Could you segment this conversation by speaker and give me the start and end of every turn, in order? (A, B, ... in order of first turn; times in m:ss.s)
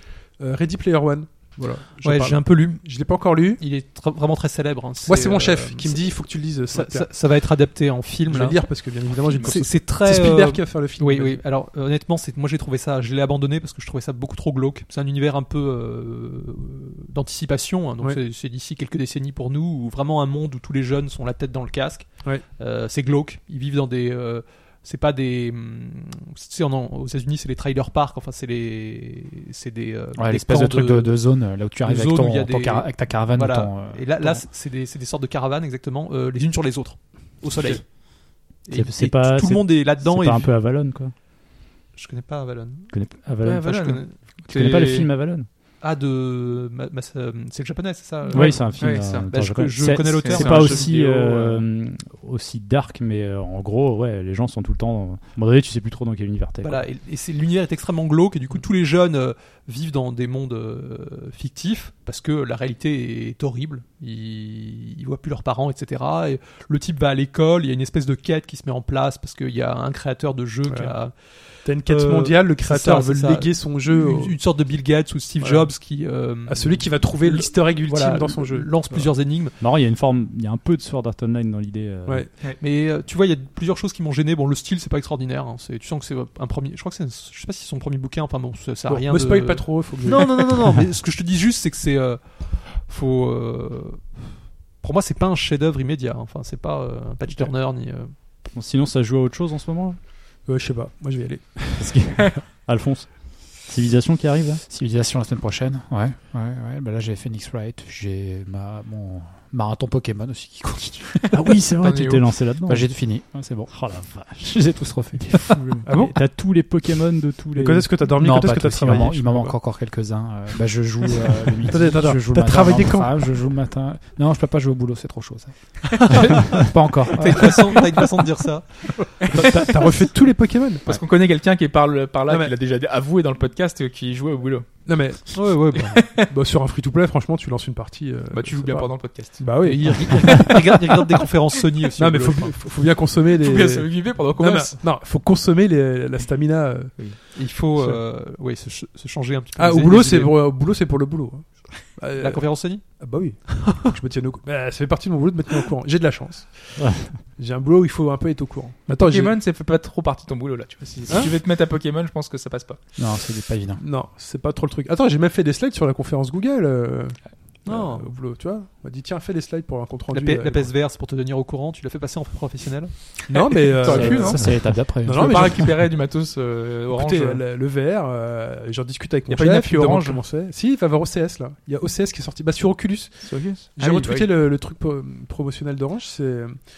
0:00.4-0:03.6 A
0:02.0-0:02.9 B
0:03.6-0:40.6 B
0:05.1-0:07.1 A
0:08.3-0:11.4 A
0:09.2-0:09.5 C
0:30.2-0:34.5 D
0:38.7-0:41.1 E
0:41.9-0:44.2 B
0:42.9-0:43.9 E
0:43.4-0:45.1 C
0:44.5-0:45.5 E
0:45.8-0:51.0 B
0:48.3-0:56.9 E
0:48.3-0:51.6 C
0:56.6-1:19.6 B
1:10.7-1:11.0 A
1:11.6-1:14.4 A
1:15.4-1:15.7 A
1:16.5-1:19.1 A
1:19.6-1:22.3 E
1:22.6-1:38.1 B
1:28.9-1:30.7 A
1:38.4-1:40.0 E
1:40.5-1:42.4 A
1:41.8-1:44.6 E
1:44.7-1:51.6 D
1:51.3-1:53.0 E
1:51.8-1:52.3 C
1:52.6-1:55.8 D
1:53.7-1:58.0 E
1:55.9-1:56.2 A
1:57.6-1:59.6 A
1:58.1-2:07.9 D
2:01.6-2:03.4 A
2:05.9-2:06.3 C
2:06.1-2:09.3 B
2:09.2-2:10.0 C
2:09.3-2:11.0 A
2:10.8-2:14.9 C
2:12.3-2:12.5 A
2:14.9-2:15.4 A
2:15.3-2:16.1 B
2:16.0-2:16.3 C
2:16.3-2:20.7 A
2:18.3-2:20.6 C
2:19.6-2:22.6 B
2:22.0-2:27.1 A
2:23.3-2:24.8 C
2:27.3-2:30.5 B
2:27.8-2:28.0 A
2:29.6-2:39.3 A
2:32.2-2:33.0 B
2:36.8-2:37.2 E
2:38.9-2:42.8 C
2:43.0-2:43.8 D
2:43.8-2:50.7 A
2:47.6-2:48.1 B
2:50.1-2:53.3 B
2:53.3-2:55.7 A
2:53.7-2:57.4 C
2:53.8-2:55.7 D
2:56.9-3:06.6 A
2:59.3-3:00.2 C
3:03.2-3:04.3 C